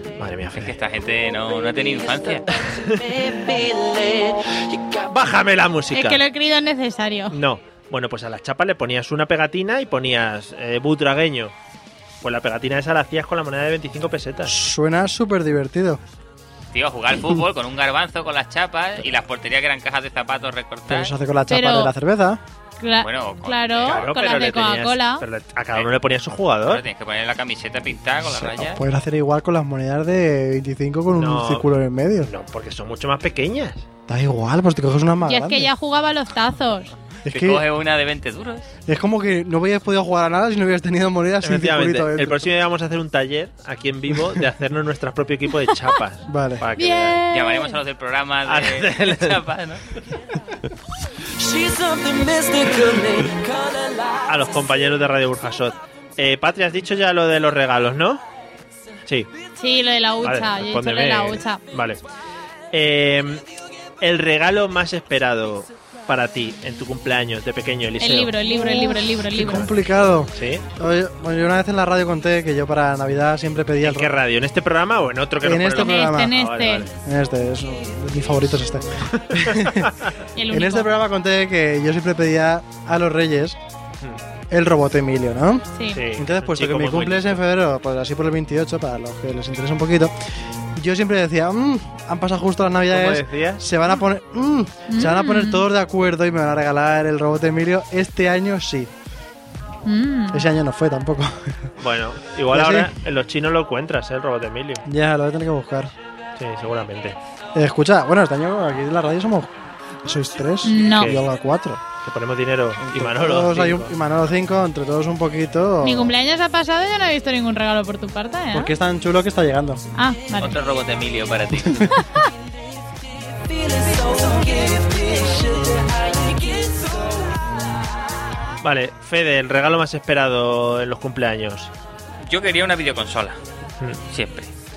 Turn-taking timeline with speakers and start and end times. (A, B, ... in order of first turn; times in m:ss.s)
0:00.2-0:00.8 A
0:00.5-0:02.5 B
0:02.6-0:03.2 A
0:02.8-0:04.9 C
0:05.0-0:06.2 A
0:05.9-0:07.4 D
0:07.3-0:11.5 A
0:12.2-0:14.5 A
0:14.4-0:16.0 E
0:16.7-0:21.1 B
0:20.9-0:22.4 E
0:21.5-0:21.9 D
0:22.8-0:25.2 D
0:23.0-0:24.0 B
0:23.8-0:26.8 A
0:26.6-0:28.8 B
0:28.3-0:32.3 E
0:31.1-0:31.7 A
0:32.2-0:33.8 A
0:34.1-0:35.7 E
0:35.2-0:36.9 D
0:37.2-0:37.6 E
0:37.3-0:38.7 B
0:38.9-0:42.5 E
0:41.4-0:47.2 A
0:46.3-0:46.6 E
0:46.8-0:47.8 D
0:47.3-0:49.8 B
0:48.4-0:49.4 A
0:51.4-0:54.3 C
0:54.3-0:58.2 A
0:59.6-1:01.6 D
1:00.2-1:02.0 A
1:02.7-1:03.4 A
1:04.0-1:08.4 A
1:08.0-1:09.7 D
1:08.4-1:14.2 E
1:09.4-1:09.7 A
1:10.3-1:10.7 A
1:13.8-1:16.9 A
1:15.4-1:16.4 E
1:15.7-1:16.9 D
1:16.9-1:19.9 E
1:19.1-1:20.1 A
1:20.3-1:20.9 D
1:20.5-1:23.6 E
1:24.5-1:30.1 E
1:25.7-1:26.0 D
1:25.9-1:27.4 A
1:30.7-1:38.9 E
1:32.9-1:33.6 A
1:34.9-1:35.7 D
1:39.8-1:40.4 D
1:40.3-1:41.7 E
1:41.8-1:44.8 A
1:42.5-1:42.9 E
1:44.8-1:45.9 E
1:46.4-1:47.2 A
1:47.5-1:51.8 E
1:50.6-1:51.1 D
1:50.8-1:51.2 A
1:52.0-1:53.9 A
1:52.8-1:56.1 E
1:55.8-1:58.7 D
1:58.5-1:59.8 E
1:59.9-2:00.6 D
2:00.4-2:02.0 B
2:01.9-2:02.3 D
2:03.4-2:07.3 C
2:08.6-2:11.7 A
2:12.2-2:13.4 B
2:14.1-2:14.5 B